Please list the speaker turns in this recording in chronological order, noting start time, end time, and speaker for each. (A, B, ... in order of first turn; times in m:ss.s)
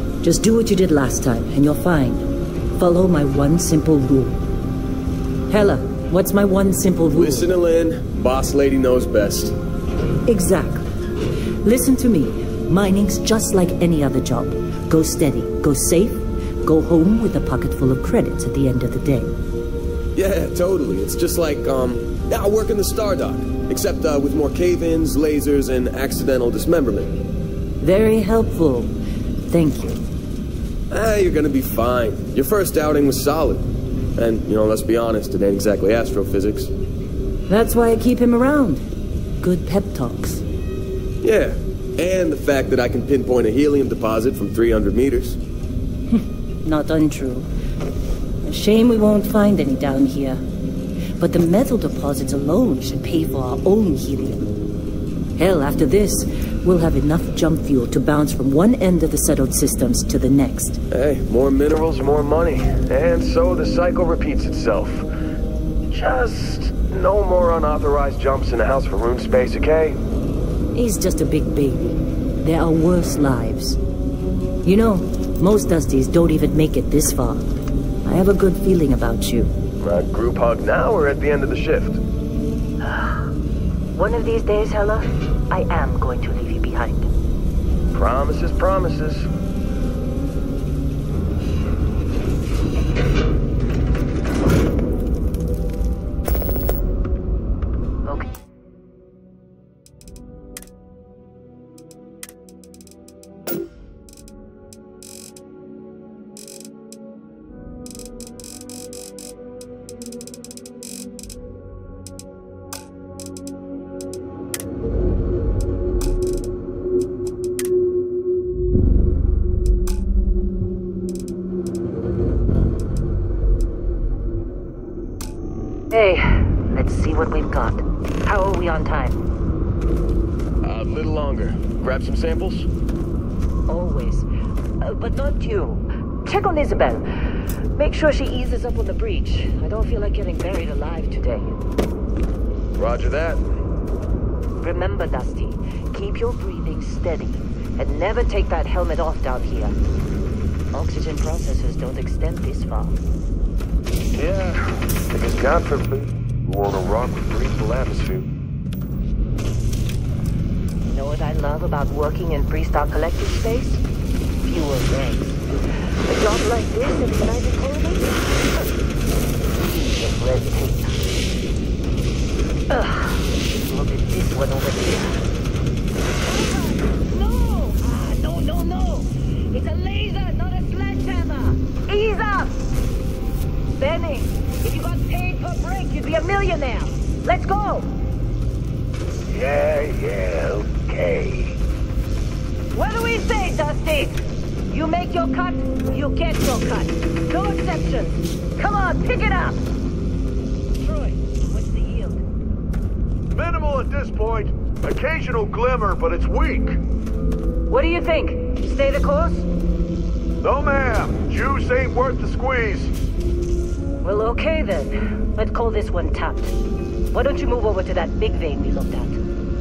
0:00.2-0:04.4 A
0:05.5-0:07.5 A
0:07.1-0:09.5 B
0:10.3-0:10.9 A
0:11.6-0:19.3 A
0:20.2-0:27.2 B
0:27.8-0:28.9 A
0:29.5-0:30.0 A
0:30.9-0:36.7 B
0:37.5-0:38.8 A
0:39.4-0:40.4 A
0:41.2-0:45.4 B
0:46.1-0:47.5 A
0:48.4-0:50.4 A
0:51.2-0:54.5 A
0:55.4-1:00.8 A
1:00.9-1:05.1 B
1:05.9-1:10.0 B
1:10.7-1:13.8 A
1:14.6-1:19.5 A
1:19.8-1:22.0 B
1:22.8-1:23.3 A
1:23.9-1:27.1 A
1:27.9-1:29.3 B
2:05.9-2:09.2 A
2:10.6-2:12.7 B
2:13.7-2:14.3 A
2:14.8-2:21.6 A
2:22.8-2:23.4 B
2:24.6-2:29.8 A
2:30.7-2:33.0 A
2:34.1-2:38.3 B
2:40.8-2:43.8 A
2:44.4-2:45.4 A
2:46.1-2:48.6 A
2:49.7-2:51.0 A
2:52.7-2:55.2 A
2:56.2-3:02.6 A
3:03.8-3:07.9 A
3:09.3-3:11.5 B
3:12.7-3:19.6 A
3:20.8-3:22.2 A
3:23.3-3:26.8 C
3:27.7-3:29.5 A
3:30.4-3:32.9 C
3:34.0-3:39.2 A